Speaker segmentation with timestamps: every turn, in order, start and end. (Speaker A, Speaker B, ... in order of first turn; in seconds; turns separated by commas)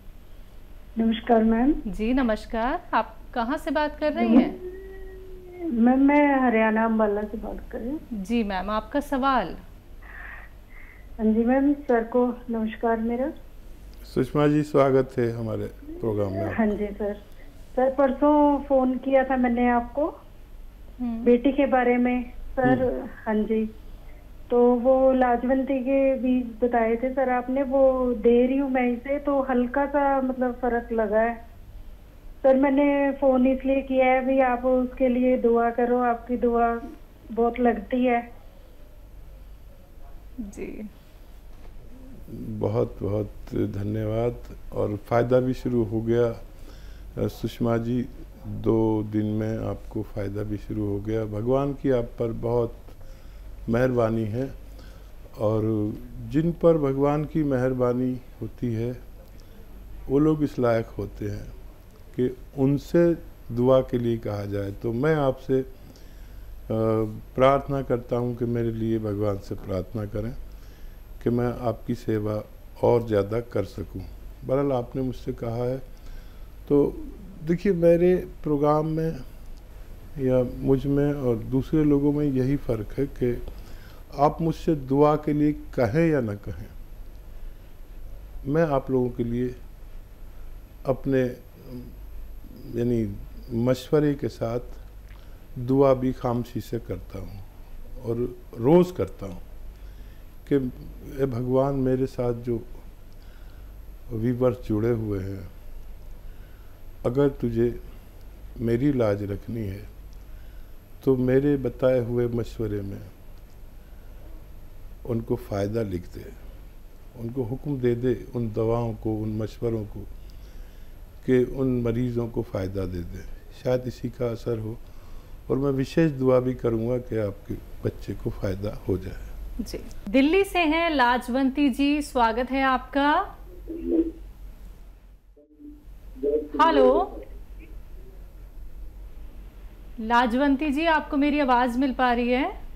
Speaker A: 1.0-1.8, Speaker B: 1.9-4.5, Speaker A: 4.2-4.5, Speaker A: 5.7-8.0, Speaker B: 8.2-9.6, Speaker A: 11.2-13.3, Speaker C: 14.1-16.7, Speaker A: 16.5-17.2, Speaker A: 17.7-20.1, Speaker B: 21.0-21.3, Speaker A: 21.2-23.7, Speaker A: 24.5-31.4, Speaker A: 32.4-36.8, Speaker A: 37.3-38.2, Speaker B: 40.4-40.9, Speaker C: 42.3-46.4, Speaker C: 47.1-52.8, Speaker C: 53.7-54.5, Speaker C: 55.4-59.0, Speaker C: 60.1-61.5, Speaker C: 62.1-65.7, Speaker C: 66.7-70.4, Speaker C: 71.2-75.8, Speaker C: 76.7-79.2, Speaker C: 80.2-83.4, Speaker C: 84.1-86.7, Speaker C: 88.4-89.6, Speaker C: 90.8-91.9, Speaker C: 92.5-94.8, Speaker C: 95.5-99.4, Speaker C: 100.5-102.7, Speaker C: 104.1-105.5, Speaker C: 107.0-107.8, Speaker C: 108.6-109.9, Speaker C: 111.0-113.1, Speaker C: 115.0-116.3, Speaker C: 117.1-120.1, Speaker C: 121.2-124.8, Speaker C: 125.5-129.3, Speaker B: 129.6-133.2, Speaker B: 136.5-137.1, Speaker B: 140.0-142.5